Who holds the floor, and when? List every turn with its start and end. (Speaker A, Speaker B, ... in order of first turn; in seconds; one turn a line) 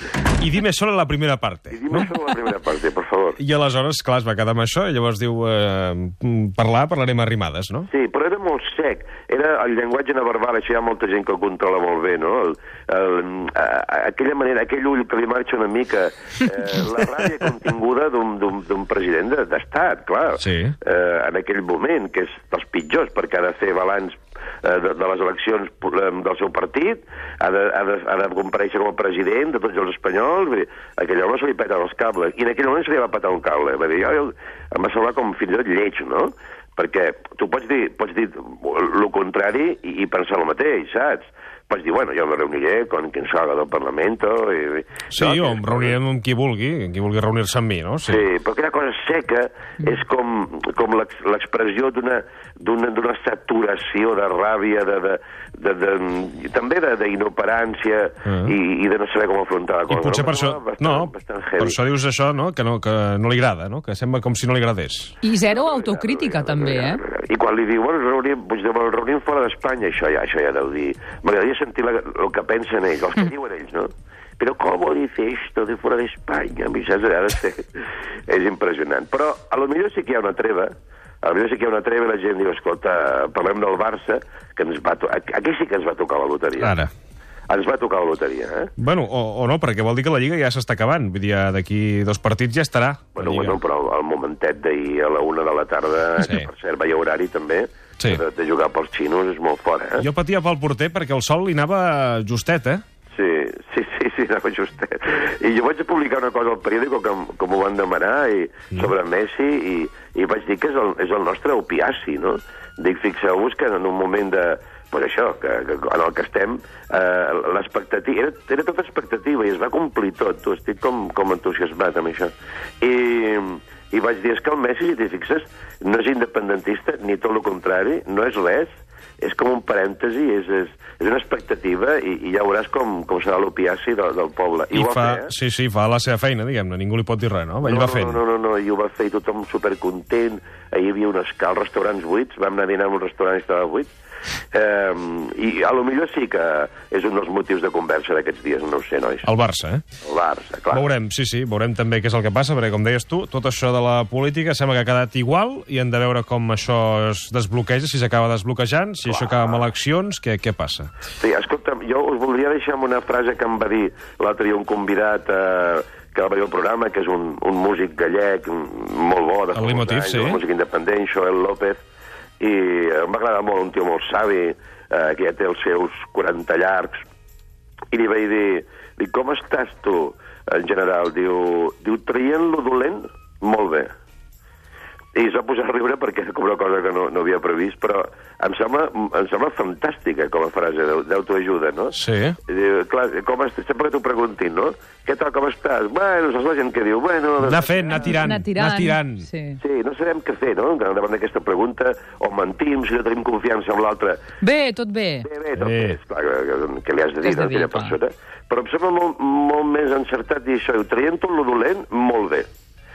Speaker A: 0.4-2.1
Speaker B: 1.7-3.4
Speaker A: 3.4-7.9
Speaker B: 7.9-46.0
Speaker A: 20.4-20.7
Speaker A: 45.1-48.2
Speaker B: 48.1-61.8
Speaker A: 58.2-58.5
Speaker A: 59.9-65.2
Speaker C: 65.2-67.0
Speaker B: 65.5-86.8
Speaker A: 86.6-86.9
Speaker B: 87.5-88.7
Speaker A: 88.8-93.6
Speaker B: 93.2-100.0
Speaker A: 96.2-96.5
Speaker A: 100.0-102.8
Speaker B: 103.1-135.3
Speaker A: 134.7-138.2
Speaker B: 137.6-143.9
Speaker B: 144.5-149.3
Speaker A: 149.2-149.8
Speaker B: 150.0-150.8
Speaker A: 150.7-160.9
Speaker B: 159.1-159.6
Speaker B: 161.2-171.8
Speaker A: 169.5-170.4
Speaker B: 172.4-177.1
Speaker B: 177.9-183.9
Speaker B: 185.1-198.2
Speaker A: 191.9-192.4
Speaker A: 197.4-199.2
Speaker C: 198.0-199.6
Speaker B: 199.6-204.3
Speaker C: 204.4-205.3
Speaker B: 205.2-212.5
Speaker A: 205.6-206.0
Speaker C: 207.2-207.9